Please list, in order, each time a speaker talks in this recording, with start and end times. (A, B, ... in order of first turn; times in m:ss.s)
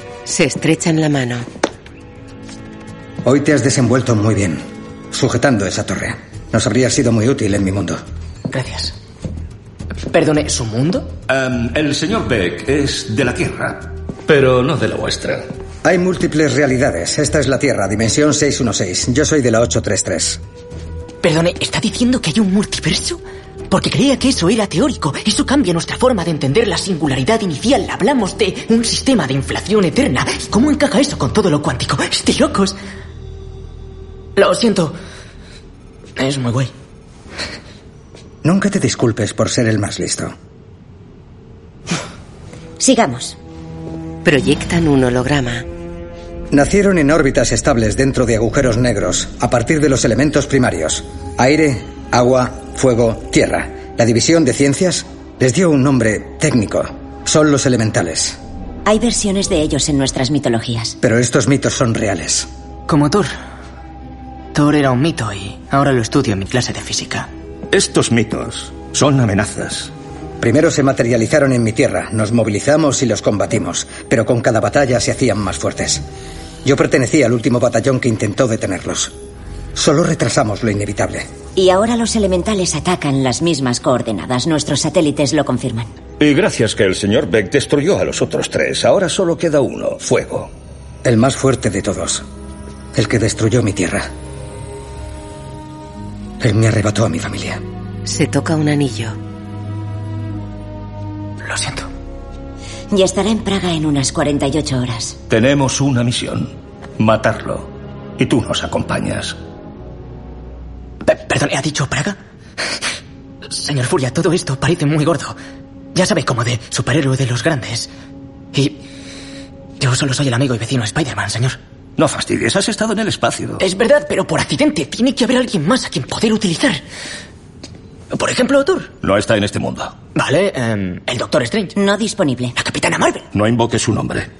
0:00.2-0:01.5 A
0:03.2-0:08.0 B
0:08.5-0:08.9 C
0:10.1-0:11.1 C
0:11.3-0:15.5 D
0:15.8-0:20.4 B
0:21.2-0:32.8 C
0:34.4-0:34.9 C
0:36.2-0:36.7 C
0:38.4-0:40.3 B
0:42.8-0:43.4 E
0:44.2-0:45.6 A
0:46.5-0:58.4 B
0:58.8-1:00.9 E
1:01.0-1:02.5 B
1:02.9-1:03.3 C
1:04.5-1:07.3 C
1:07.7-1:09.9 D
1:10.4-1:16.0 B
1:16.6-1:19.1 B
1:19.8-1:21.3 B
1:21.5-1:25.9 E
1:26.2-1:30.5 D
1:31.0-1:32.2 B
1:32.9-1:34.1 B
1:36.4-1:37.6 B
1:38.0-1:39.2 A
1:41.4-1:41.9 C
1:42.9-1:45.2 E
1:45.3-1:49.4 D
1:51.0-1:52.2 C
1:53.5-1:55.4 C
1:55.9-1:57.9 C
1:58.5-1:58.8 C
1:59.8-2:01.6 C
2:02.0-2:03.6 D
2:03.6-2:06.8 C
2:08.1-2:08.9 C
2:09.0-2:10.0 D
2:10.1-2:11.7 C
2:11.8-2:12.5 E
2:12.6-2:13.3 C
2:13.3-2:14.3 D